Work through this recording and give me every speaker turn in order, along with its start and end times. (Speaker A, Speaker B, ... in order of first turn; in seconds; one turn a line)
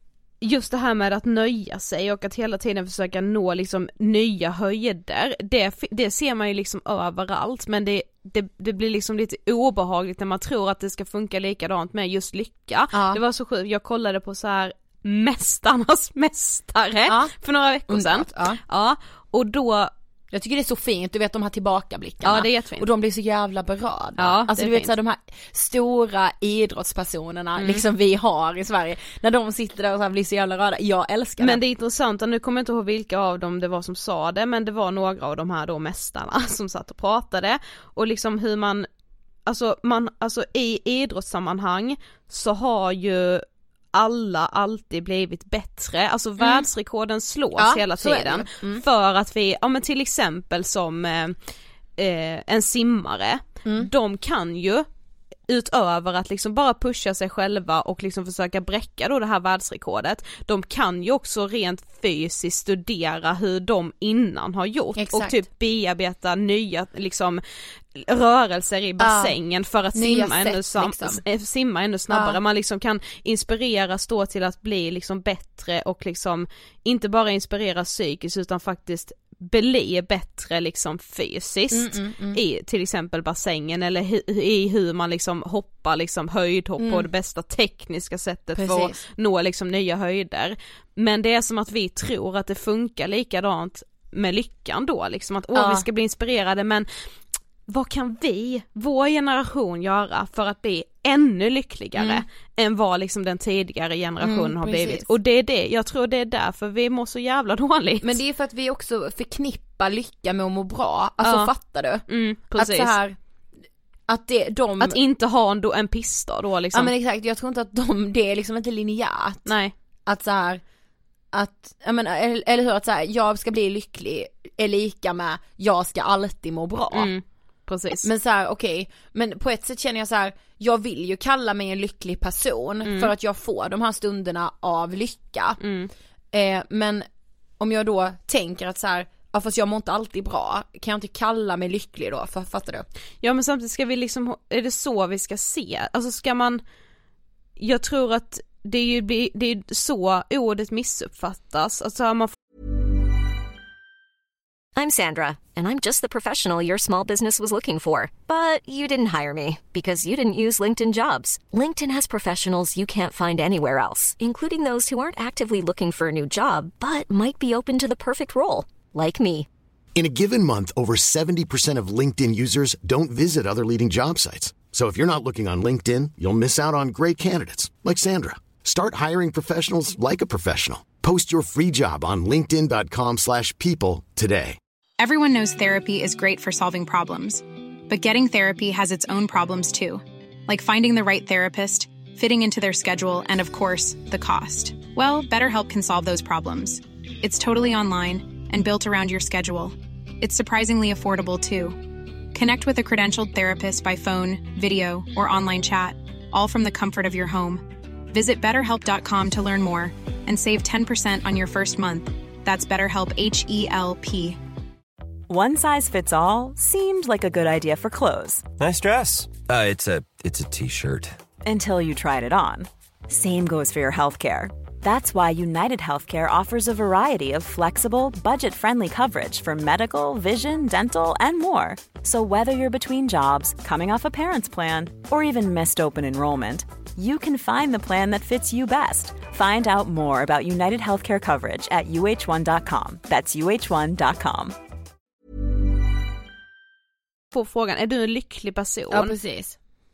Speaker A: 0.4-19.9
Speaker B: 12.9-13.2
Speaker B: 17.1-17.3
Speaker B: 17.9-18.6
Speaker B: 20.3-31.6
Speaker A: 22.2-22.9
Speaker A: 24.2-24.9
Speaker A: 27.6-27.8
Speaker A: 31.4-38.9
Speaker A: 39.5-51.4
Speaker B: 46.4-46.7
Speaker B: 47.5-48.8
Speaker A: 52.0-54.9
Speaker A: 55.5-67.4
Speaker B: 65.0-65.4
Speaker A: 67.9-96.8
Speaker B: 69.0-69.3
Speaker B: 69.9-71.2
Speaker B: 72.1-72.4
Speaker B: 81.7-82.4
Speaker B: 86.8-87.1
Speaker B: 88.6-89.0
Speaker B: 95.5-95.8
Speaker A: 97.7-108.2
Speaker B: 102.0-102.2
Speaker B: 104.2-105.1
Speaker B: 108.0-113.2
Speaker A: 111.2-111.5
Speaker A: 112.1-112.9
Speaker B: 114.1-115.0
Speaker A: 114.8-116.9
Speaker B: 116.7-119.5
Speaker A: 119.5-119.7
Speaker B: 120.1-120.6
Speaker B: 121.3-127.1
Speaker A: 126.9-128.1
Speaker B: 128.0-135.6
Speaker A: 132.8-133.1
Speaker A: 135.6-135.9
Speaker B: 136.3-137.1
Speaker B: 137.6-142.8
Speaker A: 143.2-146.6
Speaker A: 147.6-152.3
Speaker C: 154.8-169.5
Speaker D: 169.9-184.6
Speaker E: 185.0-214.4
Speaker F: 215.3-218.5
Speaker G: 218.6-221.2
Speaker F: 221.4-244.5
Speaker A: 247.3-249.1
Speaker B: 248.9-249.6